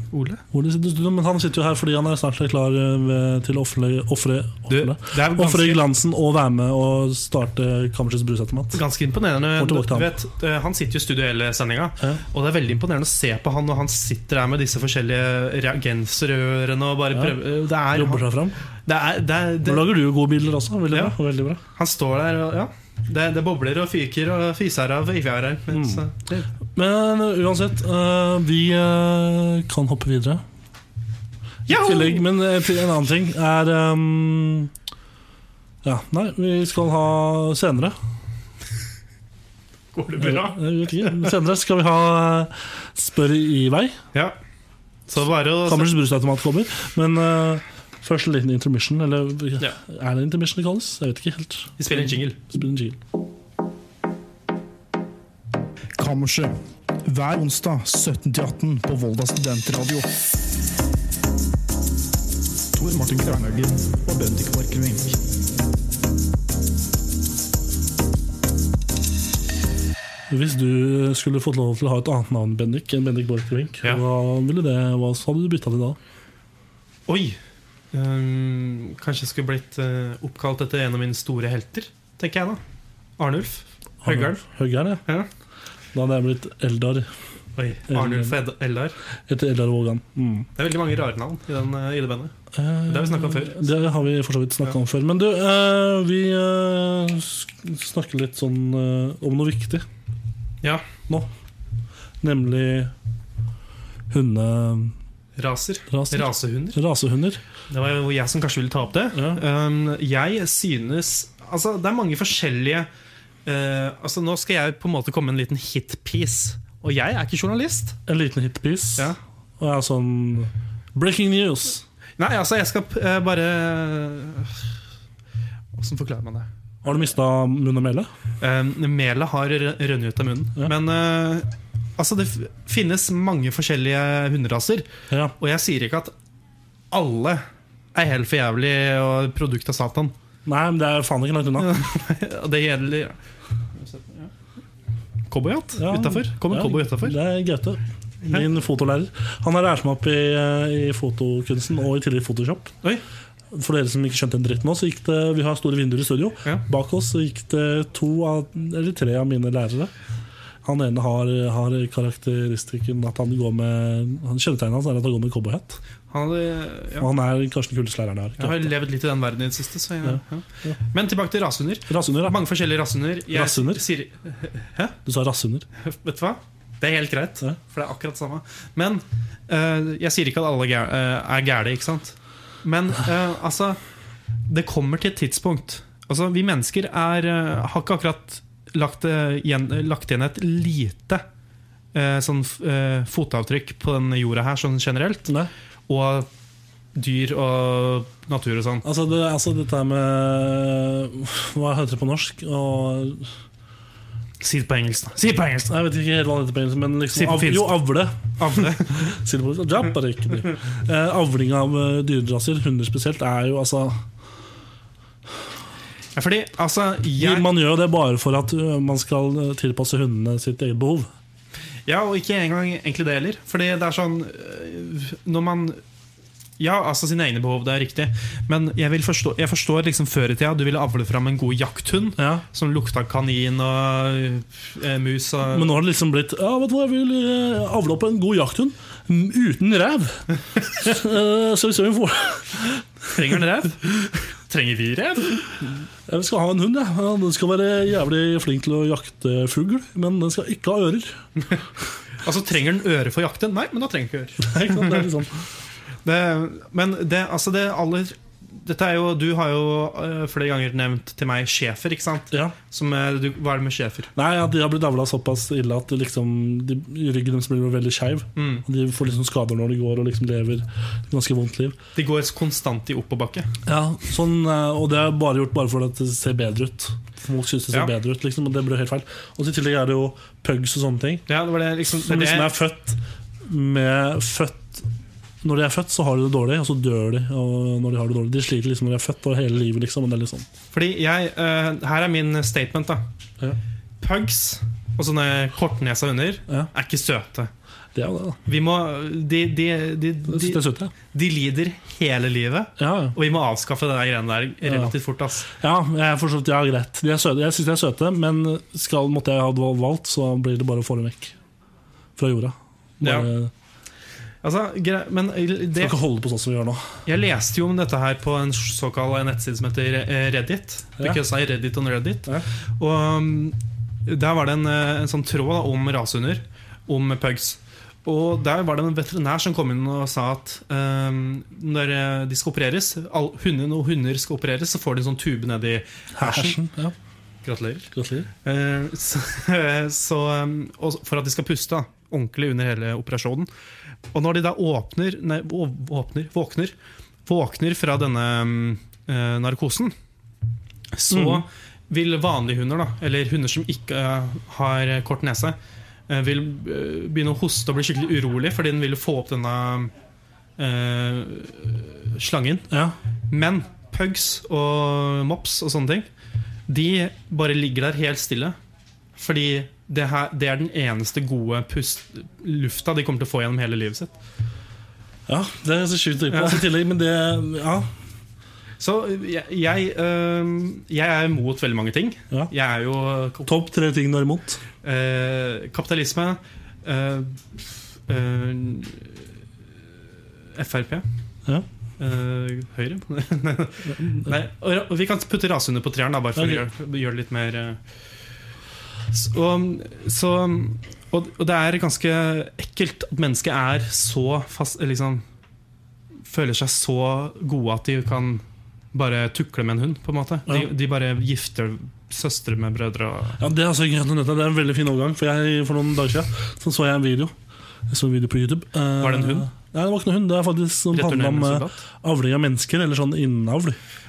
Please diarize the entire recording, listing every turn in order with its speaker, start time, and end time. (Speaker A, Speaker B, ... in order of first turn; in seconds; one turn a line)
Speaker A: 0.1-0.4
Speaker B: 0.5-8.8
Speaker A: 4.7-5.8
Speaker A: 8.7-18.3
Speaker B: 9.5-10.1
Speaker B: 17.1-18.6
Speaker A: 18.9-19.9
Speaker B: 19.6-21.6
Speaker A: 20.9-21.1
Speaker A: 21.8-26.5
Speaker B: 25.7-26.0
Speaker B: 26.8-30.4
Speaker A: 31.7-32.2
Speaker B: 31.7-34.7
Speaker B: 35.8-38.0
Speaker A: 39.9-41.3
Speaker B: 40.2-44.0
Speaker A: 45.1-45.9
Speaker B: 45.6-53.0
Speaker A: 51.8-52.4
Speaker C: 56.0-60.1
Speaker C: 62.7-65.2
Speaker B: 70.3-76.0
Speaker A: 77.1-77.4
Speaker A: 77.9-82.6
Speaker A: 83.2-84.4
Speaker B: 84.0-85.0
Speaker B: 85.9-87.1
Speaker A: 87.5-89.0
Speaker B: 87.9-88.4
Speaker B: 89.3-90.5
Speaker A: 90.5-92.3
Speaker B: 92.5-99.8
Speaker A: 92.9-93.7
Speaker B: 102.2-102.9
Speaker B: 104.1-105.0
Speaker A: 105.4-106.8
Speaker B: 105.9-107.4
Speaker A: 107.7-112.9
Speaker B: 109.1-109.4
Speaker A: 113.5-118.0
Speaker B: 118.1-121.8
Speaker A: 122.2-124.6
Speaker A: 125.8-126.5
Speaker B: 126.8-128.1
Speaker A: 128.4-134.9
Speaker A: 135.4-136.1
Speaker A: 136.9-137.4
Speaker A: 137.9-140.1
Speaker B: 140.4-141.8
Speaker A: 141.6-143.2
Speaker A: 143.8-144.3
Speaker A: 145.3-147.2
Speaker B: 145.8-152.7
Speaker B: 153.5-159.9
Speaker B: 160.6-165.8
Speaker A: 166.1-167.1
Speaker B: 167.0-168.7
Speaker A: 168.4-174.9
Speaker B: 170.0-170.8
Speaker B: 171.9-172.4
Speaker B: 173.3-173.8
Speaker B: 175.0-175.7
Speaker A: 175.8-183.8
Speaker A: 184.5-191.2
Speaker A: 191.9-195.3
Speaker A: 195.9-196.3
Speaker A: 196.9-198.8
Speaker B: 198.8-203.3
Speaker A: 204.4-205.7
Speaker B: 205.7-214.0
Speaker A: 207.1-207.8
Speaker A: 208.4-209.1
Speaker A: 216.2-217.5
Speaker B: 217.2-221.1
Speaker A: 221.9-225.8
Speaker A: 226.6-235.8
Speaker B: 232.2-232.4
Speaker B: 235.5-242.7
Speaker A: 243.1-245.7
Speaker B: 246.1-251.2
Speaker A: 252.2-255.0
Speaker B: 254.4-255.4
Speaker A: 256.0-264.1
Speaker B: 264.2-271.8
Speaker A: 268.4-268.6
Speaker A: 272.0-273.5
Speaker B: 273.7-281.2
Speaker A: 281.3-282.5
Speaker B: 281.9-284.9
Speaker B: 285.4-290.5
Speaker A: 290.7-293.1
Speaker A: 294.0-297.5
Speaker B: 297.9-298.4
Speaker A: 298.5-305.5
Speaker B: 300.3-300.9
Speaker B: 302.8-303.2
Speaker B: 304.6-304.9
Speaker B: 305.5-311.3
Speaker B: 312.2-313.5
Speaker A: 313.0-313.3
Speaker A: 314.4-316.0
Speaker B: 315.8-316.9
Speaker A: 317.1-336.6
Speaker B: 336.2-336.9
Speaker A: 337.4-337.9
Speaker B: 337.9-338.3
Speaker A: 338.4-343.5
Speaker A: 344.1-346.8
Speaker A: 347.2-349.9
Speaker A: 350.9-355.6
Speaker B: 351.1-351.4
Speaker A: 356.1-359.9
Speaker A: 360.6-362.7
Speaker B: 362.7-362.9
Speaker A: 363.3-366.1
Speaker A: 366.7-368.6
Speaker A: 369.2-374.1
Speaker B: 375.3-377.9
Speaker A: 376.3-376.6
Speaker A: 378.8-383.5
Speaker B: 383.5-384.6
Speaker A: 384.8-389.3
Speaker A: 390.5-391.1
Speaker A: 392.0-397.8
Speaker B: 394.0-394.3
Speaker B: 396.4-396.6
Speaker A: 399.1-405.2
Speaker A: 406.3-413.4
Speaker B: 413.4-417.3
Speaker B: 417.9-423.8
Speaker A: 419.0-419.5
Speaker A: 420.9-421.8